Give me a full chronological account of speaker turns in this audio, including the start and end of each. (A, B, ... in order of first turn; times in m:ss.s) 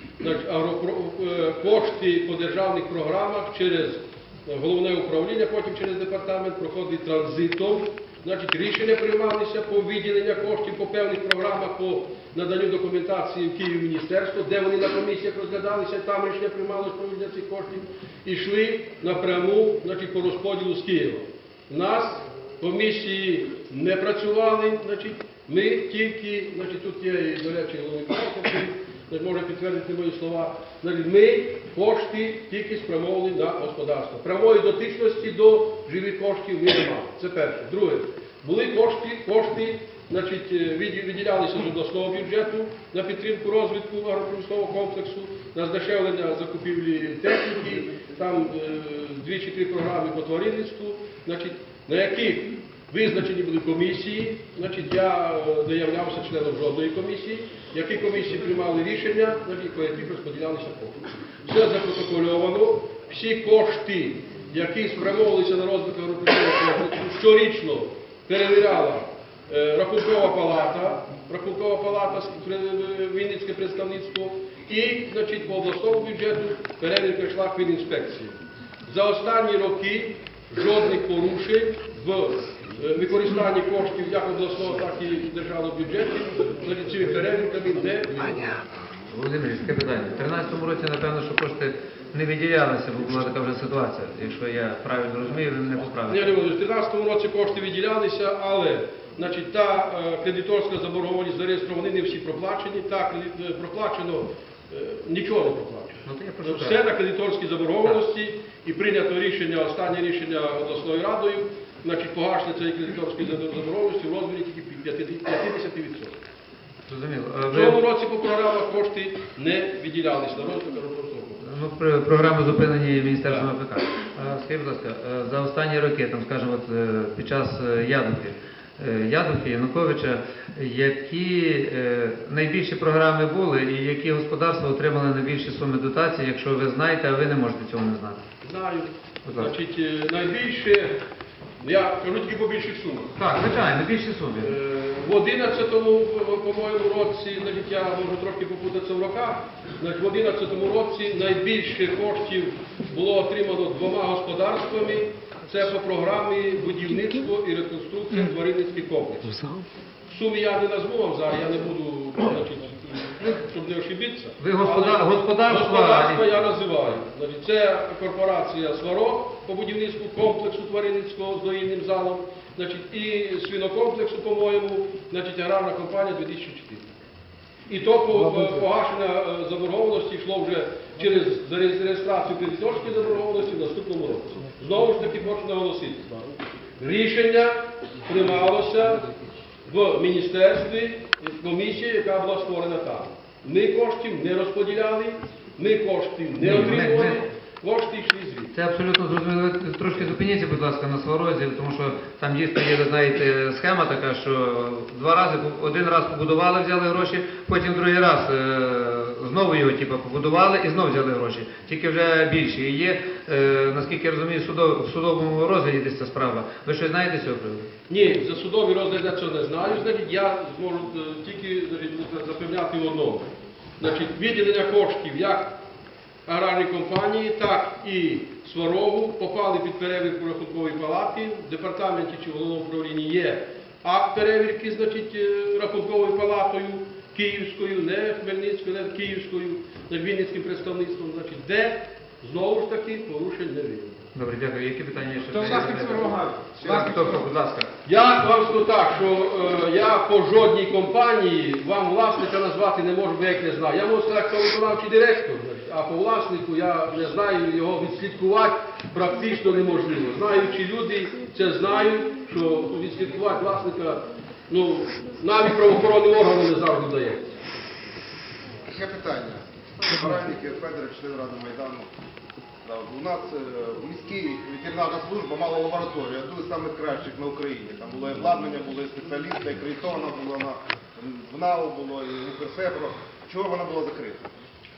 0:00.2-1:18.4 A
1:18.9-1:28.6 A
1:29.1-1:36.3 B
1:36.1-1:56.2 A
1:46.1-1:46.8 B
1:56.9-1:57.8 B
1:57.5-2:01.6 A
2:01.4-2:18.2 B
2:18.4-2:21.0 A
2:19.2-2:19.5 B
2:21.6-2:23.1 A
2:23.2-2:24.5 B
2:24.4-2:39.4 A
2:40.1-2:56.9 A
2:44.4-2:46.3 B
2:57.7-3:06.1 A
3:06.8-3:09.1 A
3:09.7-3:18.5 A
3:16.4-3:17.3 B
3:18.5-3:37.7 B
3:37.9-3:45.6 A
3:46.3-4:04.1 A
4:04.1-4:07.7 B
4:05.5-4:07.2 C
4:07.8-4:27.4 A
4:28.7-4:31.9 C
4:32.6-4:44.3 C